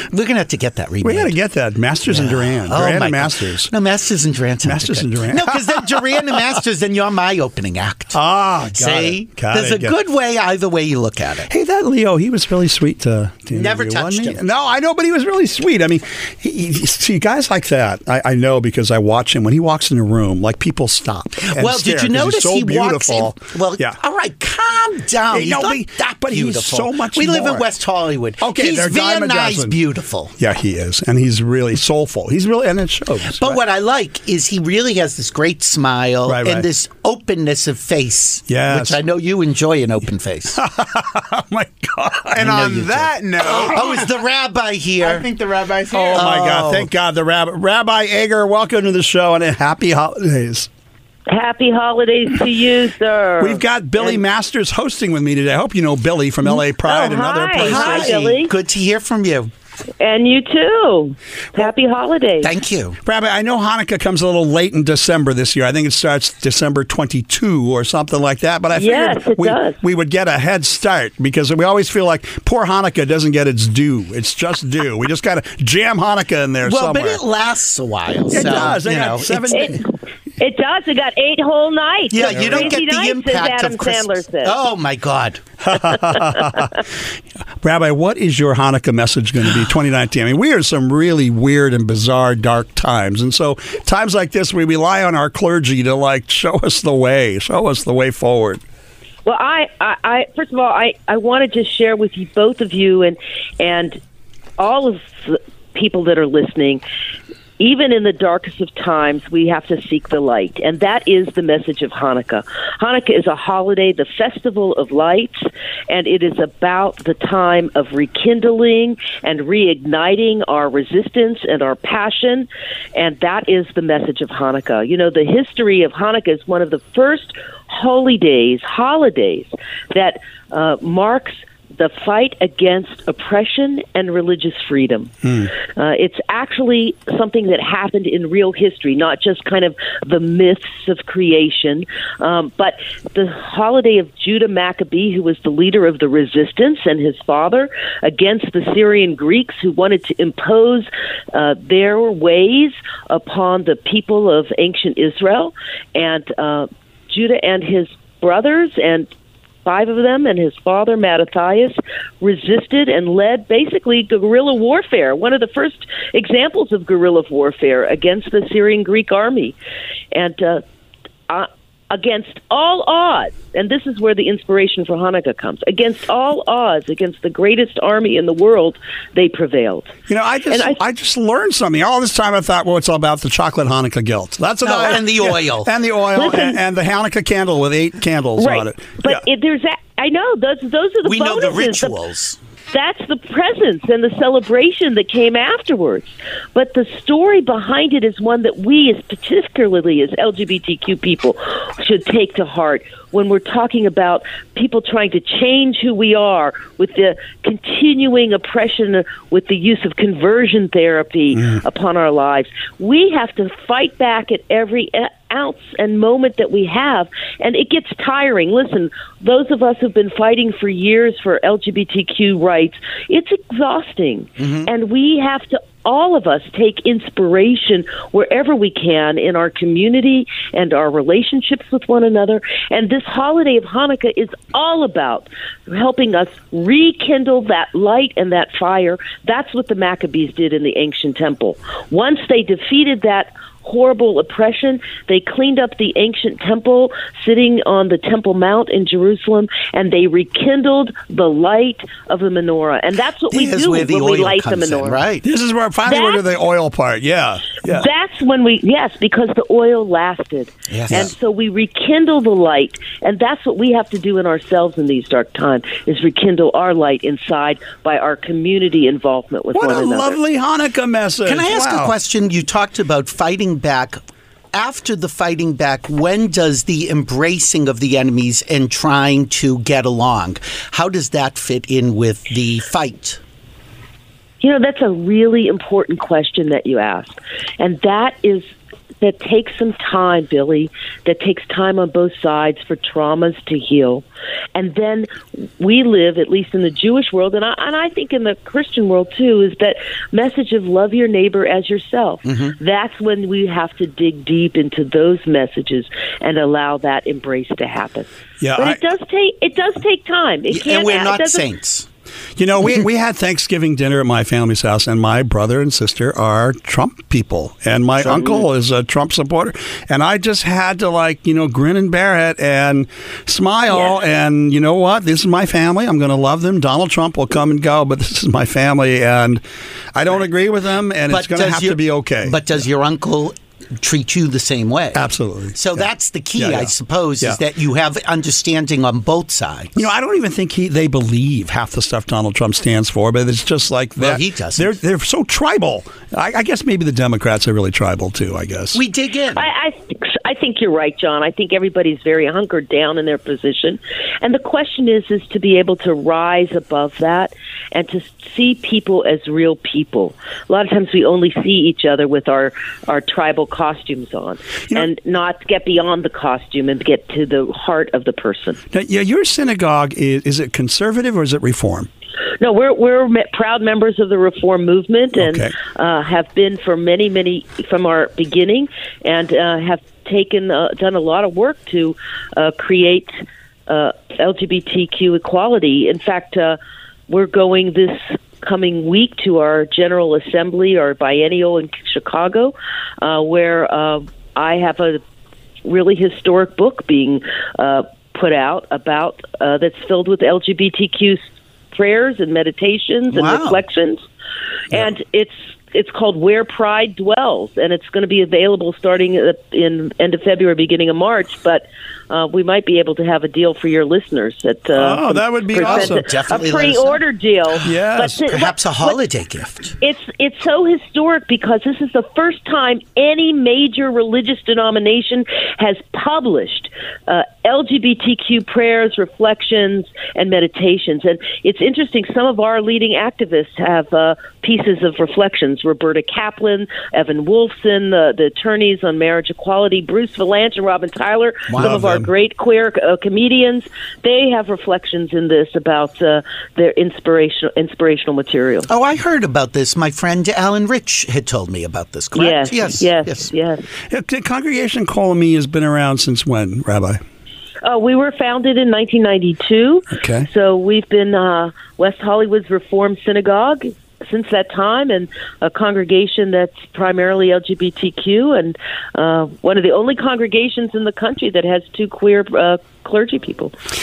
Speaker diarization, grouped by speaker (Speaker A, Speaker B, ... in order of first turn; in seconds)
Speaker A: 0.1-1.3, 2.1-8.2, 8.7-11.5, 13.5-14.4, 21.4-30.3, 33.4-40.6, 42.6-42.9, 43.4-45.3, 46.1-46.9, 57.6-59.5, 62.4-63.0, 76.6-79.7, 82.1-85.4, 184.6-185.7, 191.0-192.4, 224.4-224.7, 253.3-255.2, 260.7-261.1, 271.2-274.0, 274.5-283.2, 302.2-302.5, 310.5-311.9, 318.0-318.4, 331.1-335.0, 335.5-339.9, 344.0-344.8, 348.7-349.5, 403.1-403.6, 415.5-417.0, 418.3-419.7, 441.5-441.8, 448.7-453.3
Speaker B: 1.0-3.7, 4.6-6.4, 8.1-9.9, 11.5-24.0, 25.3-27.6, 28.4-29.8, 30.4-33.6, 36.3-36.7, 38.5-39.0, 40.5-43.1, 45.9-50.7, 53.4-58.2, 63.0-77.2, 78.3-79.8, 82.2-82.8, 85.6-86.7, 87.6-98.6, 135.2-135.5, 180.1-189.2, 211.3-211.6, 255.2-257.9, 269.5-271.9, 308.4-308.8, 312.4-329.4, 329.9-332.4, 334.9-337.4, 339.8-348.8, 368.7-371.9, 375.2-375.5, 414.7-416.1, 417.6-418.2, 441.6-442.1, 453.9-457.0, 459.9-460.3
Speaker C: 42.4-44.0, 45.0-46.2
Speaker D: 51.3-54.2, 56.8-58.5, 60.0-62.5, 68.7-69.8, 79.5-79.8, 80.4-84.5, 99.2-104.0, 104.6-106.8, 107.6-159.1, 159.6-169.6, 170.1-170.6, 171.3-179.9, 180.5-180.8, 186.1-186.6, 188.4-191.9, 192.7-255.0, 255.8-256.2, 257.6-270.2, 284.4-294.0, 294.5-311.4, 349.3-368.6, 372.4-383.1, 383.7-386.6, 387.1-395.0, 395.6-404.0, 404.7-419.0, 419.8-448.7, 452.1-453.6, 457.6-473.5